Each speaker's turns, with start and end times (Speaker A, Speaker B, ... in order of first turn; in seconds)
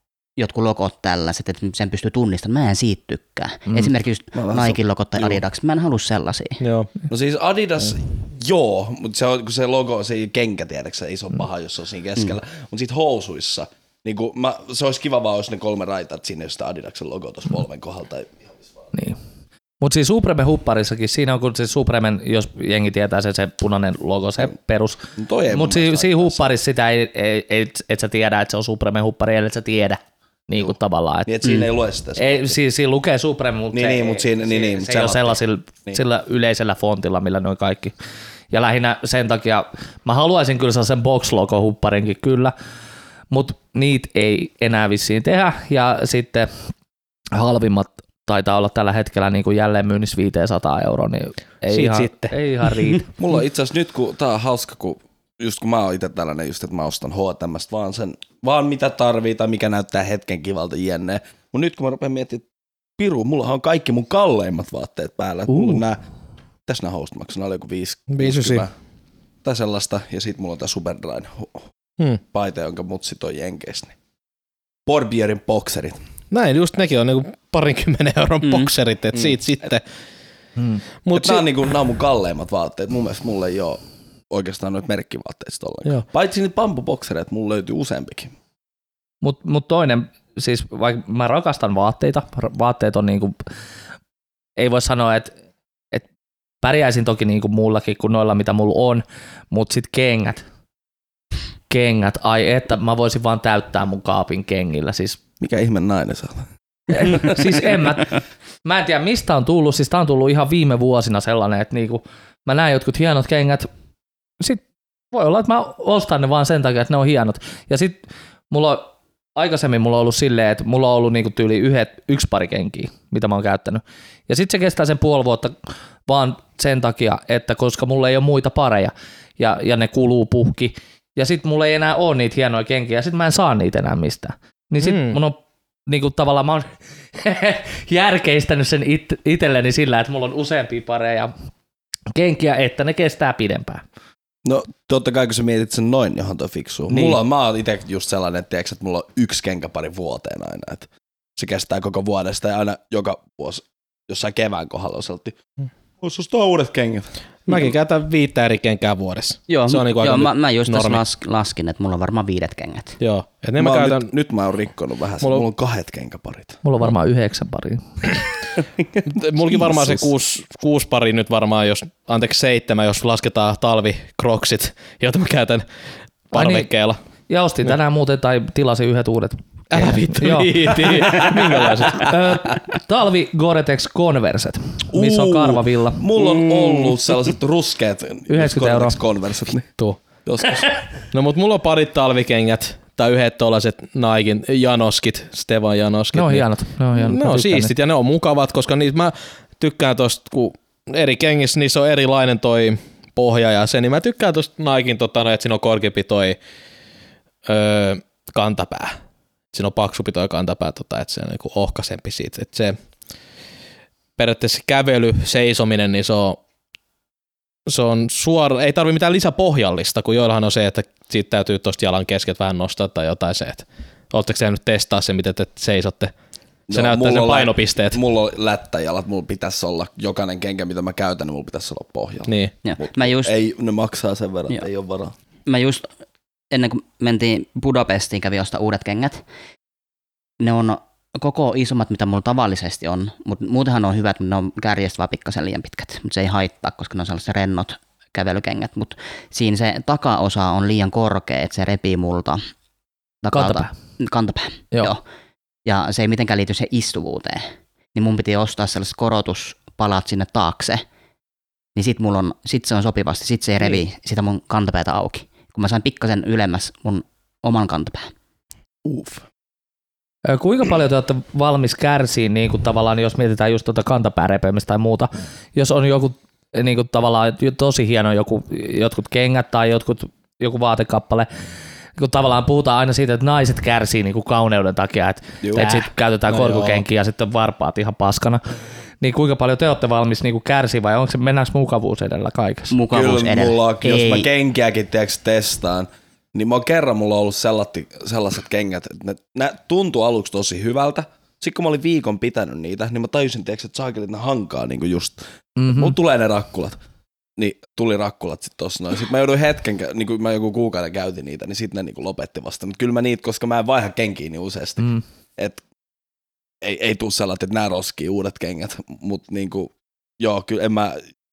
Speaker A: 0.4-6.6, 78.4-78.7, 159.5-163.0, 232.6-233.3, 235.5-235.9, 236.5-239.2, 240.4-252.4, 253.2-255.0, 255.7-260.8, 261.7-268.1, 292.7-294.3
Speaker B: 4.3-5.4, 7.1-18.4, 25.2-26.5, 31.2-32.5, 33.7-36.0, 53.1-62.4, 63.0-66.0, 66.7-68.7, 69.4-71.7, 72.3-73.9, 74.9-76.0, 81.1-88.3, 105.4-107.3, 144.4-155.4, 156.0-157.1, 163.6-166.6, 168.8-170.1, 184.9-190.8, 226.7-235.1, 268.8-269.2, 285.4-285.7, 292.9-306.8, 307.4-315.6, 316.6-321.0
Speaker C: 6.6-6.9, 51.7-52.3, 68.2-68.7, 76.3-79.8, 81.1-81.5, 134.8-135.2, 157.5-161.0, 163.0-164.1, 169.1-175.6, 176.3-177.0, 179.7-182.1, 191.1-206.4, 207.4-209.0, 209.5-212.8, 214.2-216.4, 217.7-226.1, 226.7-228.0, 232.3-232.5, 286.3-286.8
Speaker D: 19.8-25.0, 25.5-31.6, 32.1-37.9, 38.5-42.5, 43.3-46.5, 47.3-53.0, 89.2-93.4, 94.6-95.3, 96.6-100.4, 101.7-105.2, 106.9-113.7, 114.4-141.3, 142.1-143.8, 146.9-147.2, 166.6-167.8, 176.3-176.7, 177.3-181.3, 181.9-186.1, 188.3-189.0, 196.1-197.7, 253.3-253.7, 270.2-281.3, 282.0-288.4, 289.0-292.7, 305.6-305.9